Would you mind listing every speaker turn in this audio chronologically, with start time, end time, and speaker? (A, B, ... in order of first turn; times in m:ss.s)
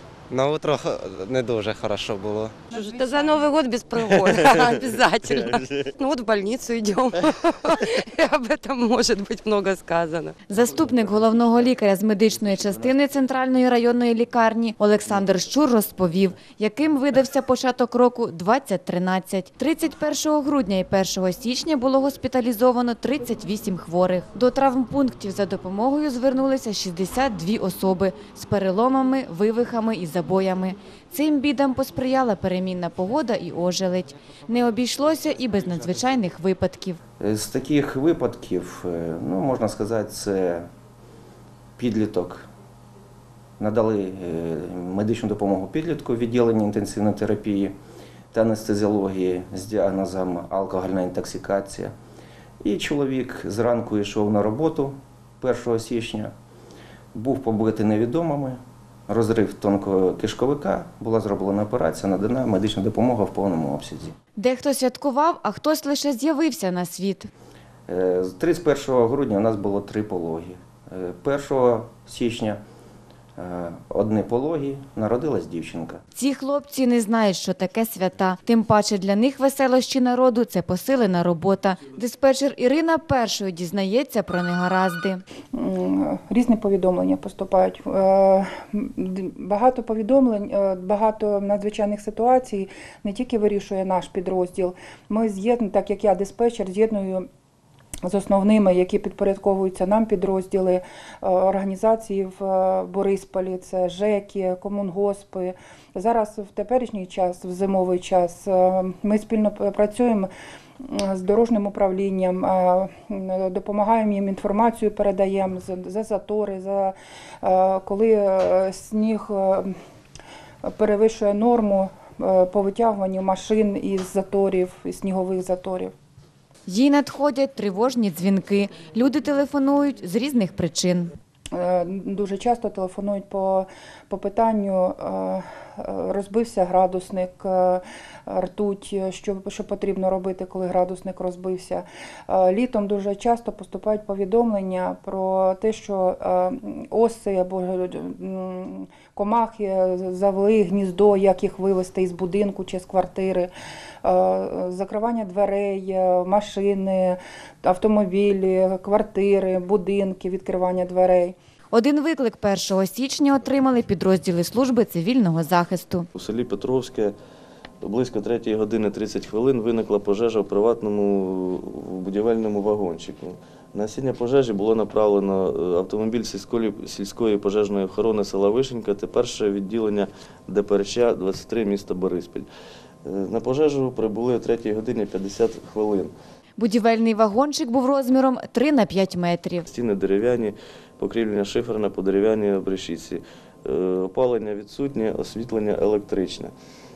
0:00.3-0:02.6 A
0:02.7-0:10.4 B
0:10.5-0:37.0 C
0:37.2-0:40.7 D
0:41.8-0:42.5 D
0:43.6-0:47.7 D
0:48.3-0:51.9 D
0:52.6-0:56.3 D
0:57.1-1:04.1 D
1:04.4-1:07.3 C
1:07.9-1:12.6 D
1:13.4-1:16.0 D
1:16.1-1:25.2 C
1:25.5-1:37.3 E
1:38.0-1:50.3 E
1:50.8-1:59.7 E
2:00.6-2:05.9 E
2:06.7-2:11.1 C
2:11.5-2:33.5 E
2:34.0-2:41.3 E
2:41.7-2:46.1 C
2:46.1-2:47.1 F
2:47.8-3:02.5 F
3:03.0-3:06.1 F
3:06.6-3:09.7 C
3:09.7-3:16.5 F